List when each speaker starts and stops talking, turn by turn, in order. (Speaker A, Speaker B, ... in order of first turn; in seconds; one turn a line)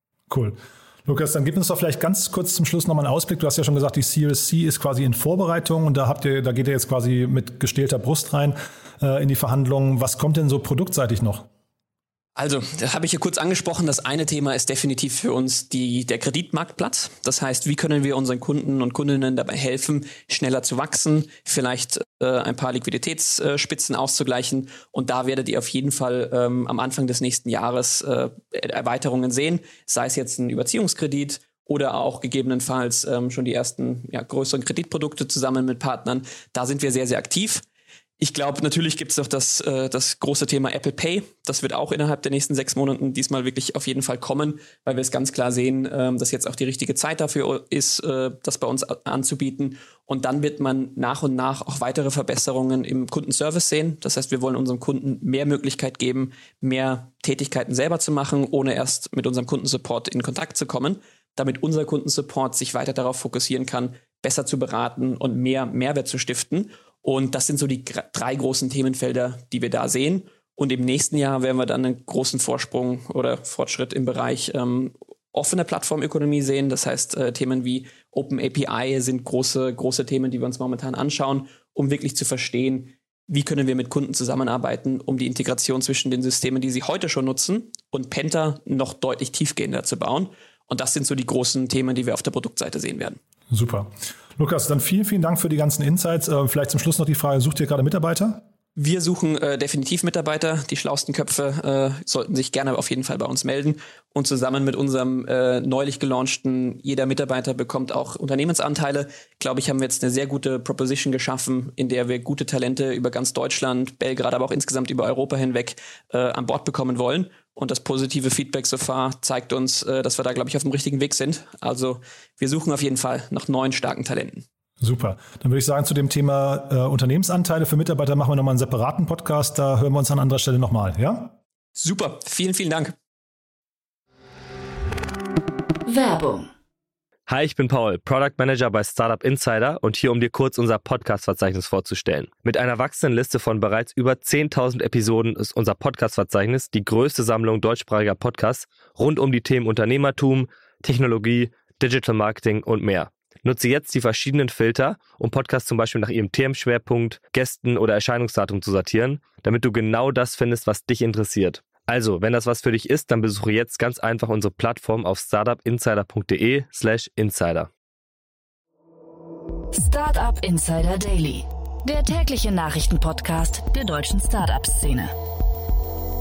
Speaker A: 0.3-11.5
Speaker B: 12.4-37.6
Speaker B: 38.2-93.2
Speaker A: 93.5-98.4
Speaker B: 98.8-124.5
Speaker A: 124.8-131.4
Speaker B: 131.8-132.9
Speaker C: 135.9-136.5
Speaker D: 137.3-167.7
Speaker C: 169.7-175.1